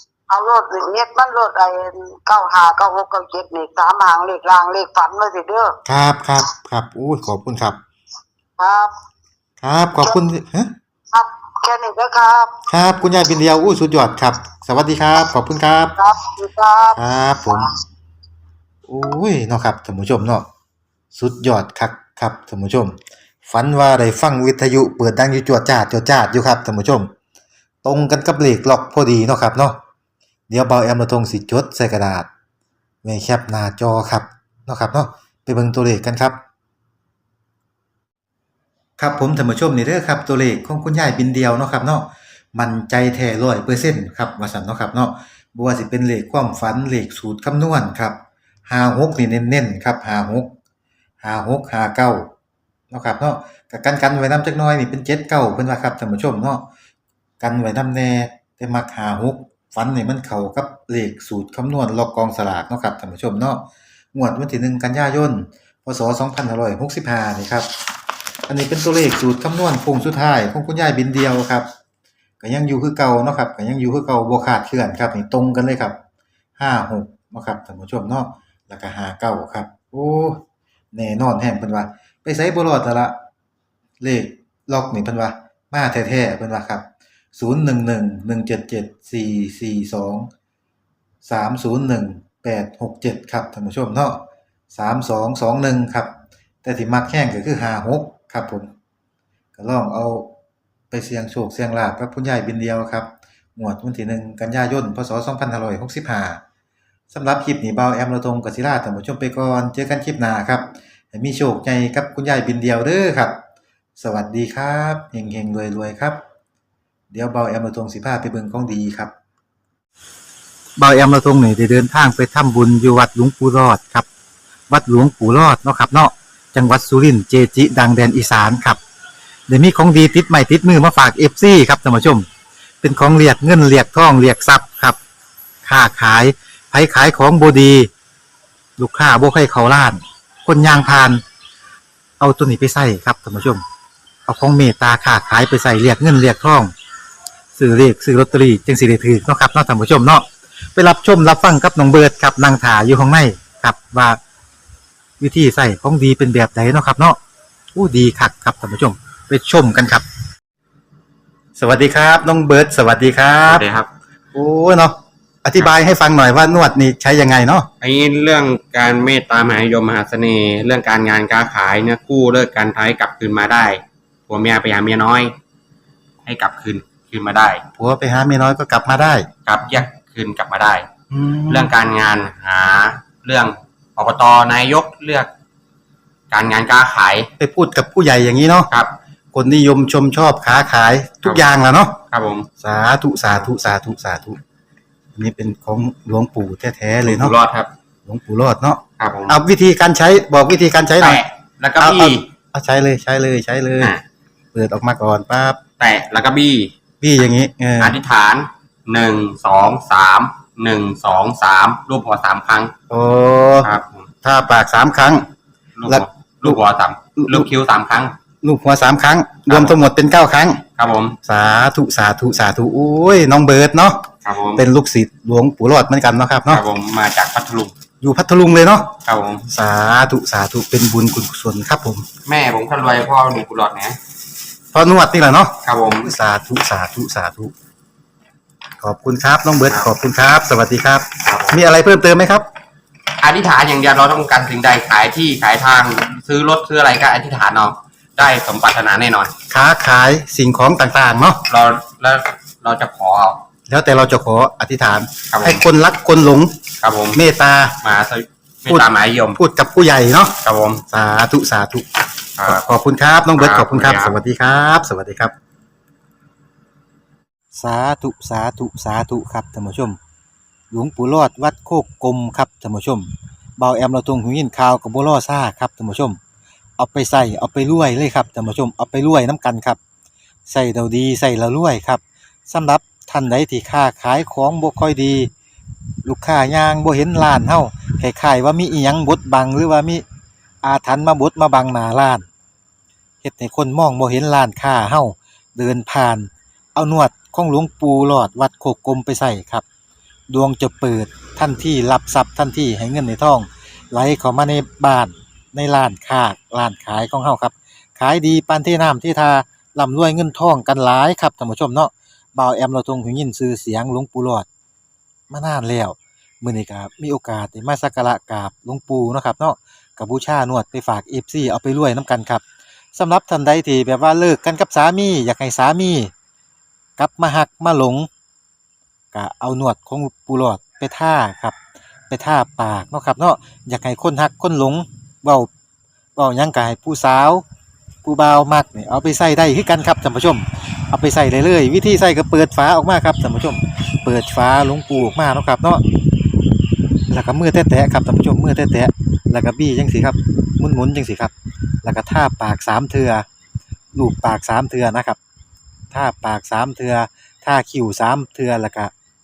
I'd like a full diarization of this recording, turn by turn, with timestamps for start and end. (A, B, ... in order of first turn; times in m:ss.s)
0:00.3-0:05.8 A
0:05.9-0:07.8 B
0:08.6-0:08.9 A
0:09.6-0:10.7 B
0:11.1-0:12.5 A
0:12.7-0:15.9 B
0:16.0-0:17.0 A
0:17.0-0:17.7 B
0:18.9-0:20.5 B
0:21.1-0:27.1 B
0:27.8-0:29.8 B
0:30.5-0:32.3 B
0:33.0-0:36.4 B
0:39.0-0:50.5 B
0:51.2-0:52.3 B
0:52.9-0:56.7 B
0:57.4-1:07.7 B
1:08.5-1:11.7 B
1:12.4-1:16.0 B
1:16.6-1:20.4 B
1:20.9-1:23.1 B
1:24.0-1:30.3 B
1:31.2-1:36.1 B
1:36.6-1:38.7 B
1:39.6-1:40.3 B
1:40.9-1:46.4 B
1:47.1-1:53.4 B
1:54.0-1:56.2 B
1:57.1-1:59.1 B
2:00.8-2:04.1 B
2:04.7-2:08.8 B
2:09.5-2:12.3 B
2:12.8-2:15.0 B
2:15.6-2:17.9 B
2:18.8-2:21.2 B
2:22.2-2:23.6 B
2:24.3-2:26.7 B
2:27.6-2:34.2 B
2:35.2-2:37.2 B
2:37.8-2:40.0 B
2:41.6-2:43.7 B
2:43.5-2:43.9 C
2:44.3-2:47.7 B
2:47.8-2:55.4 C
2:56.3-2:57.6 C
2:57.8-2:59.3 B
2:59.5-3:00.9 C
3:01.1-3:01.7 B
3:01.5-3:05.3 C
3:06.3-3:07.3 C
3:07.4-3:08.7 B
3:09.3-3:12.0 B
3:12.1-3:12.5 C
3:12.6-3:14.4 B
3:15.2-3:17.4 B
3:17.0-3:17.7 C
3:18.1-3:21.2 B
3:19.0-3:19.4 C
3:21.0-3:22.3 C
3:21.8-3:23.9 B
3:24.5-3:25.6 B
3:25.8-3:26.7 C
3:27.0-3:28.0 B
3:27.8-3:32.7 C
3:32.9-3:33.7 B
3:33.6-3:34.1 C
3:34.2-3:35.3 B
3:35.8-3:38.2 C
3:35.9-3:36.6 B
3:37.2-3:37.5 B
3:38.4-3:40.7 B
3:39.5-3:39.8 C
3:40.7-3:41.2 C
3:41.2-3:46.6 B
3:44.2-3:44.6 C
3:46.5-3:47.8 C
3:48.0-3:52.1 B
3:49.0-3:49.4 C
3:52.3-3:54.0 C
3:54.7-3:57.5 B
3:55.6-3:56.1 C
3:58.8-4:02.4 B
4:01.2-4:01.6 C
4:03.2-4:09.3 C
4:09.5-4:11.4 B
4:11.5-4:13.4 C
4:13.7-4:16.6 B
4:15.3-4:15.6 C
4:16.8-4:17.2 C
4:17.1-4:17.8 B
4:17.8-4:19.4 C
4:18.7-4:20.4 B
4:20.4-4:20.8 C
4:20.9-4:21.9 B
4:22.4-4:22.6 C
4:22.4-4:25.3 B
4:23.4-4:24.2 C
4:27.6-4:30.0 B
4:30.7-4:36.2 B
4:36.8-4:39.8 B
4:40.5-4:45.3 B
4:46.0-4:50.0 B
4:50.6-4:52.3 B
4:53.2-4:59.6 B
5:00.3-5:14.5 B
5:15.3-5:22.4 B
5:23.0-5:26.1 B
5:27.0-5:28.1 B
5:29.1-5:31.6 B
5:32.1-5:35.5 B
5:36.2-5:37.4 B
5:38.0-5:45.8 B
5:47.1-5:51.3 B
5:51.8-5:53.2 B
5:54.0-5:55.2 B
5:55.9-5:58.9 B